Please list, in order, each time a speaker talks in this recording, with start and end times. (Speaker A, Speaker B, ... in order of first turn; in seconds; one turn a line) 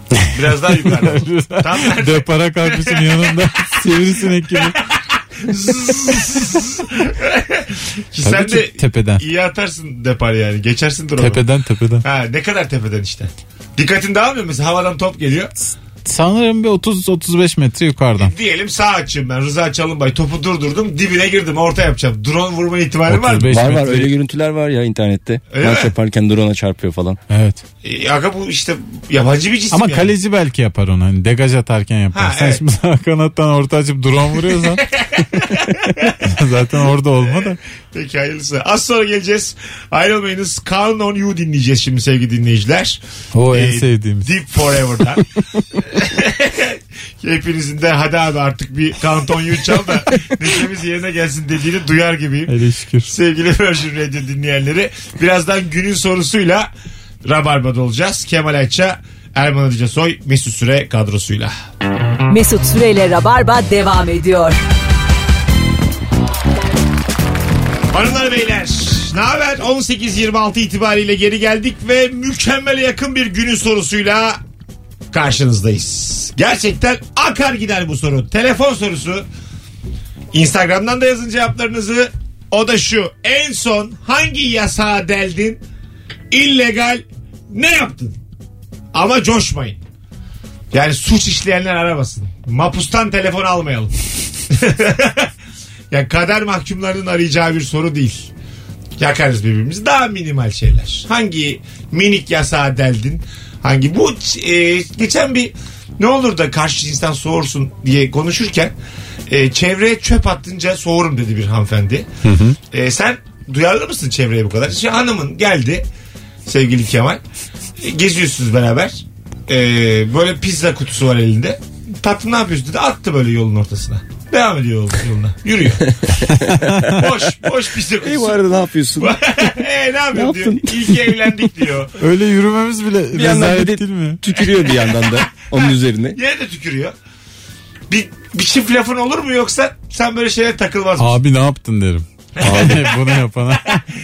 Speaker A: 0.2-4.8
Speaker B: 0.3-3.9
Speaker B: 4.5-11.4
Speaker A: 8.2-9.2
Speaker A: 11.2-12.0
Speaker B: 12.0-15.5
Speaker A: 16.0-18.3
Speaker B: 18.2-23.5
Speaker A: 23.1-24.1
Speaker C: 23.5-27.2
Speaker B: 25.5-25.9
Speaker A: 27.3-27.6
Speaker B: 27.8-30.1
Speaker A: 29.7-34.8
Speaker B: 32.1-32.6
Speaker B: 34.7-36.3
Speaker A: 36.1-37.6
Speaker B: 37.2-45.2
Speaker A: 43.3-44.3
Speaker B: 45.8-56.7
Speaker A: 52.5-53.1
Speaker B: 57.2-61.5
Speaker D: 62.3-64.6
Speaker B: 67.9-74.4
Speaker B: 75.1-79.2
Speaker B: 80.3-85.6
Speaker B: 86.3-88.2
Speaker B: 88.9-89.8
Speaker B: 90.7-93.9
Speaker B: 94.5-95.3
Speaker B: 95.9-98.3
Speaker B: 99.0-108.7
Speaker B: 109.3-112.1
Speaker A: 112.2-112.6
Speaker B: 112.7-115.8
Speaker B: 116.4-117.2
Speaker B: 117.8-125.9
Speaker C: 126.1-126.7
Speaker A: 126.3-127.0
Speaker B: 126.9-128.4
Speaker C: 128.0-129.2
Speaker B: 129.0-131.9
Speaker C: 130.1-131.1
Speaker A: 132.0-134.2
Speaker C: 133.1-136.2
Speaker B: 134.6-136.9
Speaker B: 137.9-141.2
Speaker A: 141.0-143.8
Speaker B: 142.4-143.1
Speaker C: 142.4-142.9